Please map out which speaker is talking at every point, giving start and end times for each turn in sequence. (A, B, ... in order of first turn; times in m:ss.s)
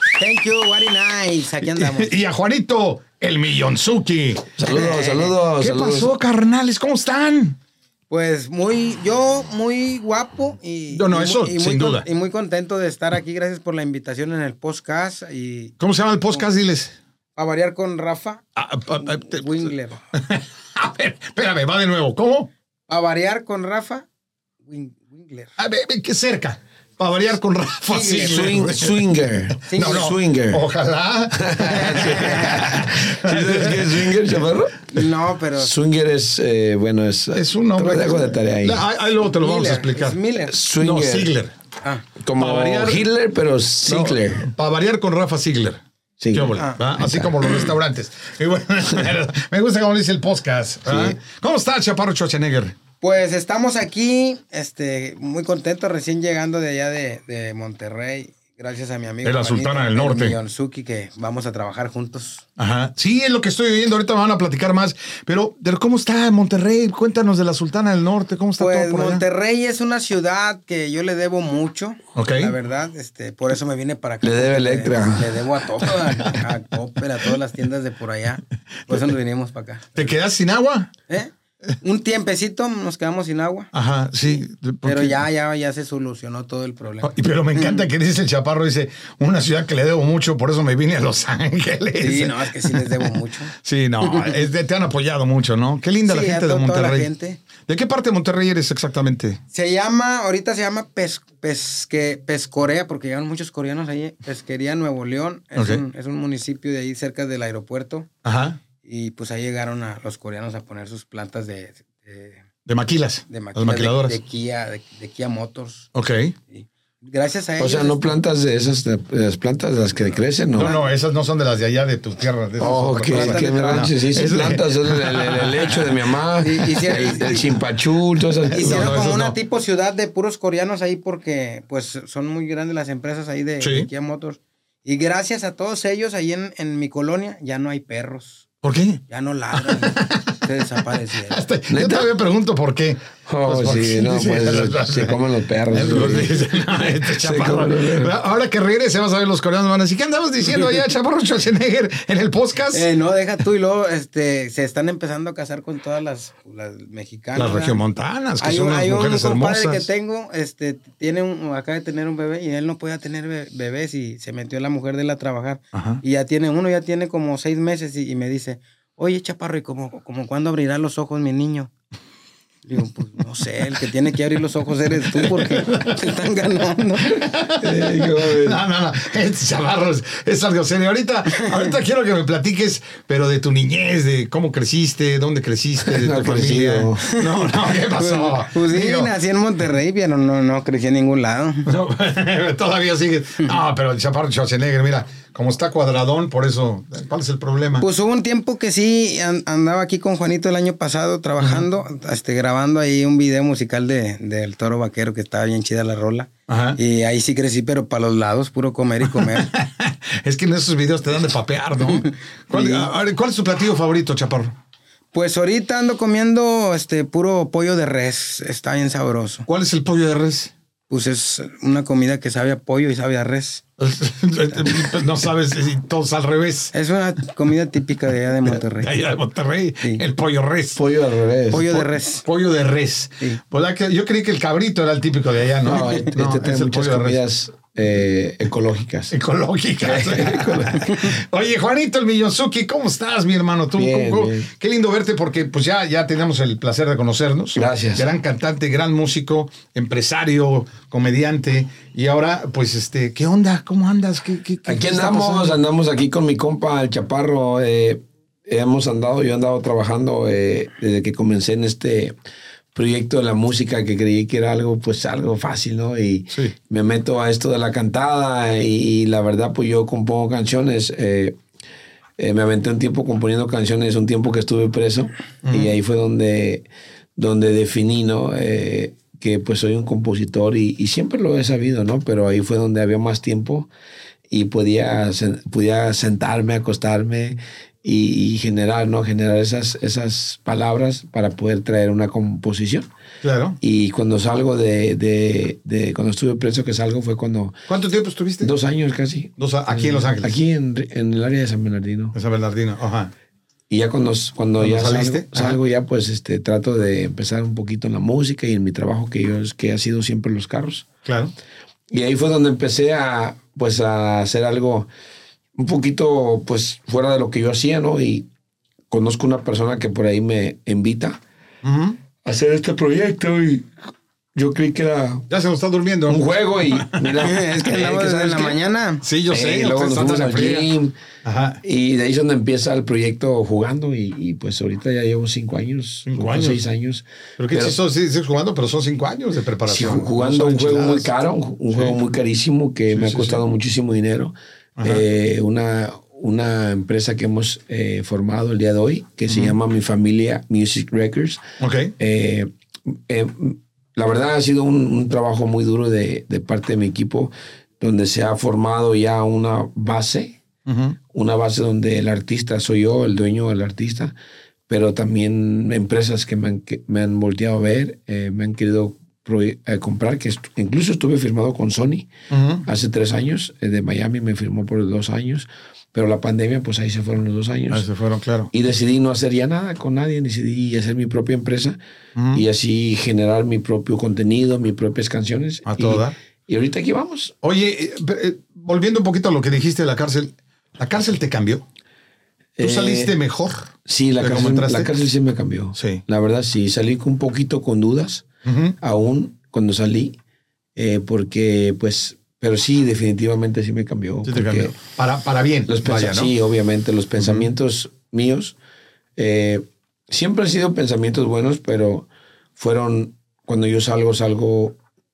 0:00.2-0:02.1 A
0:01.6-0:04.5 B
0:04.6-0:06.1 C
0:04.7-0:05.3 A
0:05.5-0:07.6 B
0:08.1-0:15.7 A
0:10.9-0:12.1 B
0:15.8-0:17.0 B
0:17.4-0:18.4 A
0:18.6-0:22.5 B
0:19.0-0:20.0 A
0:22.9-0:24.1 A
0:24.6-0:25.5 A
0:25.6-0:29.0 B
0:27.9-0:28.5 A
0:28.2-0:30.6 C
0:29.7-0:30.1 A
0:29.7-0:34.4 B
0:31.4-0:34.8 C
0:31.6-0:32.6 A
0:34.9-0:35.8 A
0:35.6-0:38.8 C
0:37.3-0:40.2 B
0:39.4-0:40.6 A
0:40.5-0:41.4 C
0:40.8-0:41.5 B
0:42.2-0:44.5 C
0:42.4-0:43.0 B
0:43.9-0:45.8 B
0:46.2-0:47.3 C
0:46.3-0:52.8 B
0:46.6-0:46.8 A
0:50.9-0:51.2 C
0:53.0-1:02.4 A
0:59.2-1:00.4 B
1:02.6-1:09.2 B
1:08.6-1:20.1 A
1:12.2-1:12.5 B
1:14.2-1:15.4 C
1:20.0-1:20.9 B
1:21.1-1:23.7 A
1:23.7-1:25.2 B
1:24.3-1:27.9 A
1:27.0-1:37.1 B
1:32.0-1:33.5 A
1:34.1-1:34.4 A
1:36.0-1:37.4 A
1:37.6-1:39.4 B
1:39.5-1:48.1 A
1:45.6-1:45.8 B
1:48.2-1:48.6 B
1:48.8-1:52.4 A
1:52.7-1:54.2 B
1:53.3-1:55.9 A
1:56.0-1:56.3 B
1:56.5-1:58.1 A
1:57.6-2:00.8 C
2:00.5-2:06.0 B
2:02.6-2:09.1 C
2:03.0-2:03.9 A
2:06.4-2:07.4 A
2:08.5-2:18.4 A
2:08.6-2:09.4 B
2:13.6-2:13.9 B
2:18.6-2:19.0 B
2:19.1-2:21.4 A
2:19.6-2:25.2 B
2:21.7-2:22.1 C
2:23.2-2:28.2 C
2:25.7-2:32.9 B
2:32.7-2:37.8 A
2:37.4-2:39.9 B
2:38.4-2:51.7 A
2:45.7-2:46.0 B
2:52.6-2:57.2 A
2:55.2-2:56.1 B
2:57.1-3:09.1 B
2:57.6-2:58.6 C
3:01.4-3:01.7 A
3:05.8-3:07.0 C
3:07.0-3:11.7 A
3:11.7-3:17.9 B
3:17.8-3:29.5 A
3:26.5-3:26.8 B
3:29.0-3:34.6 B
3:32.0-3:32.9 A
3:35.1-3:39.5 A
3:39.5-3:40.5 B
3:40.9-3:43.6 A
3:43.8-3:46.7 B
3:46.7-3:48.9 A
3:48.4-3:50.8 B
3:50.8-3:51.7 C
3:51.5-3:52.2 A
3:51.6-3:57.2 B
3:55.6-3:59.1 C
3:59.1-4:15.6 B
3:59.8-4:01.0 C
4:03.8-4:04.5 C
4:07.6-4:08.1 C
4:14.6-4:22.2 C
4:22.7-4:31.4 C
4:32.2-4:43.7 C
4:35.4-4:35.8 B
4:44.3-4:52.9 C
4:53.2-4:53.6 B
4:53.6-4:57.6 C
4:57.7-4:58.5 B
4:58.4-5:02.2 C
4:59.4-5:00.4 B
5:02.1-5:03.1 B
5:03.7-5:10.9 C
5:04.6-5:05.6 B
5:11.1-5:11.3 B
5:11.9-5:14.9 C
5:15.6-5:18.3 C
5:18.9-5:21.2 C
5:21.6-5:22.0 B
5:22.2-5:23.7 C
5:24.4-5:25.3 C
5:25.3-5:27.1 B
5:26.1-5:28.6 C
5:27.2-5:29.0 A
5:29.0-5:30.7 B
5:29.3-5:31.0 C
5:31.2-5:31.6 B
5:31.6-5:37.8 C
5:36.1-5:36.6 B
5:37.4-5:41.1 B
5:39.7-5:51.4 C
5:41.7-5:42.0 B
5:42.9-5:43.4 B
5:44.8-5:45.1 B
5:49.3-5:49.6 B
5:51.6-5:51.9 B
5:52.0-6:00.4 C
6:00.7-6:01.0 B
6:01.1-6:04.2 C
6:04.7-6:12.1 C
6:12.3-6:12.7 B
6:12.6-6:17.9 C
6:17.7-6:18.5 B
6:18.5-6:21.8 C
6:22.2-6:22.4 B
6:22.3-6:27.4 C
6:25.7-6:26.2 B
6:27.4-6:31.6 B
6:32.6-6:33.2 C
6:32.6-6:34.9 B
6:33.9-6:38.3 C
6:35.8-6:36.0 B
6:38.5-6:38.8 B
6:38.8-6:40.2 C
6:40.8-6:44.8 C
6:44.3-6:46.3 B
6:45.7-6:48.6 C
6:47.2-6:47.5 B
6:49.2-6:54.8 C